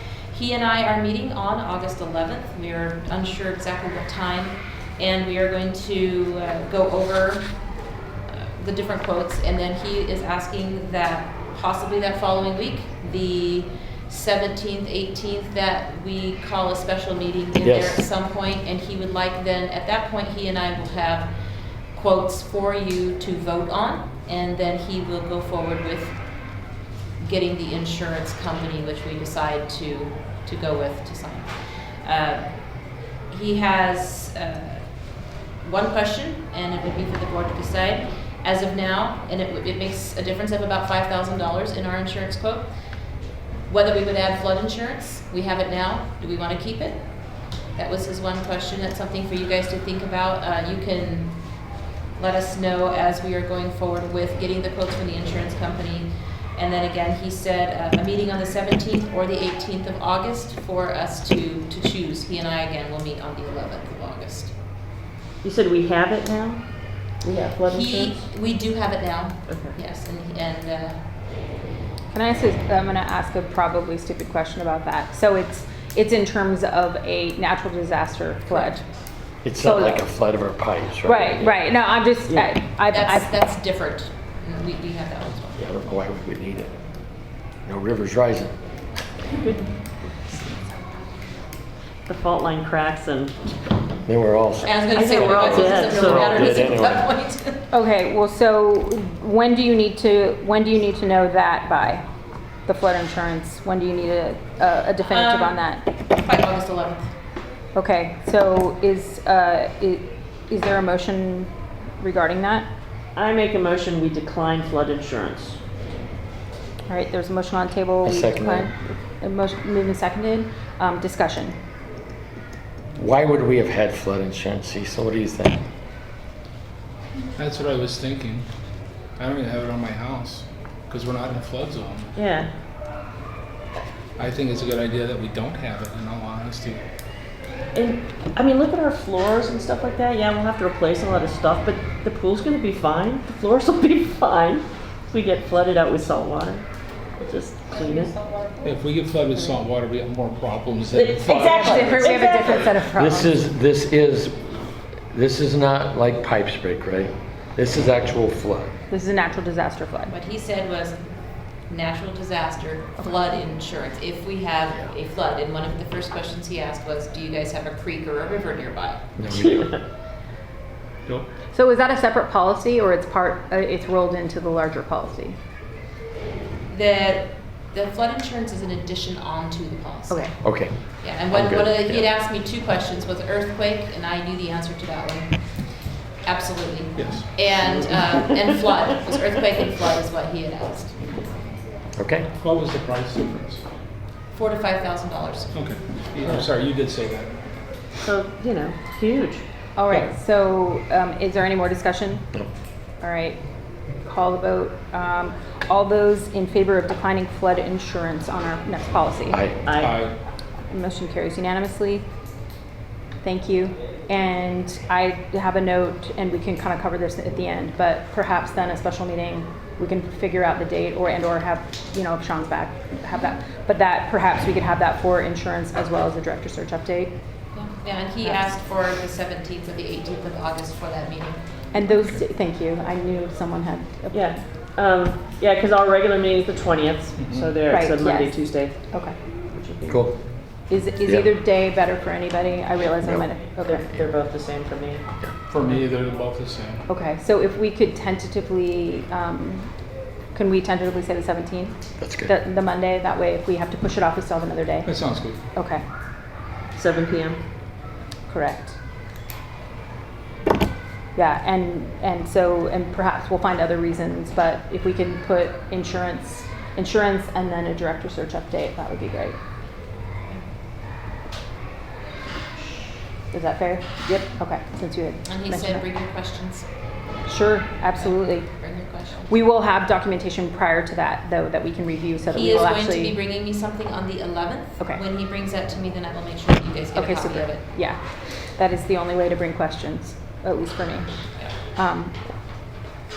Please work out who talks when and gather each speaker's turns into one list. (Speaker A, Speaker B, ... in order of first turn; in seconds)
Speaker A: 0.3-7.5, 8.3-21.3, 21.9-26.2, 27.2-32.5, 33.3-34.9, 35.6-42.7, 43.7-47.0, 47.7-51.4, 52.2-64.5, 67.7-71.0, 82.9-85.6, 94.6-97.7, 105.1-107.1, 147.7-148.7, 160.1-161.0, 161.7-169.1, 176.7-180.3, 181.0-185.6, 186.2-191.1, 194.3-195.5, 227.5-231.4, 275.3-276.6, 277.9-279.3, 282.3-287.6
Speaker B: 17.6-18.1, 79.4-81.5, 85.6-86.7, 87.6-88.6, 94.0-97.1, 118.0-118.7, 122.9-125.7, 152.9-154.4, 155.1-158.7, 169.2-169.7, 180.4-180.7, 181.3-182.1, 192.0-192.3, 209.3-209.6, 239.9-240.2, 243.0-243.3, 252.0-252.3
Speaker C: 65.4-66.6, 67.2-68.2, 69.5-69.7, 82.3-82.5, 92.1-93.5, 94.9-96.6, 113.1-115.6, 132.2-132.5, 137.7-146.6, 147.2-148.1, 150.9-152.7, 169.3-169.8, 187.6-188.5, 198.0-199.4, 209.6-210.0, 234.1-238.9, 239.5-240.1, 243.6-245.0, 256.7-257.4
Speaker D: 72.1-78.8, 79.6-80.1, 81.0-83.3, 97.7-102.0, 102.7-105.8, 107.7-112.7, 116.9-121.5, 151.3-153.3, 158.9-160.1, 171.5-175.3, 180.1-180.3, 199.8-202.3, 203.0-203.4, 204.0-209.4, 210.7-212.0, 213.2-227.1, 231.7-234.4, 237.7-239.2, 240.7-243.8, 246.9-249.7, 250.3-254.9, 255.6-255.8, 258.3-258.7, 261.1-269.4, 273.3-275.8, 277.2-278.5, 279.3-283.2, 286.9-291.1, 291.8-292.1
Speaker E: 127.4-128.4, 129.2-132.1, 134.2-136.8, 148.6-152.2, 186.9-187.3, 192.4-193.6, 195.5-197.4, 209.8-210.1, 237.2-237.6, 245.5-246.8, 254.8-255.4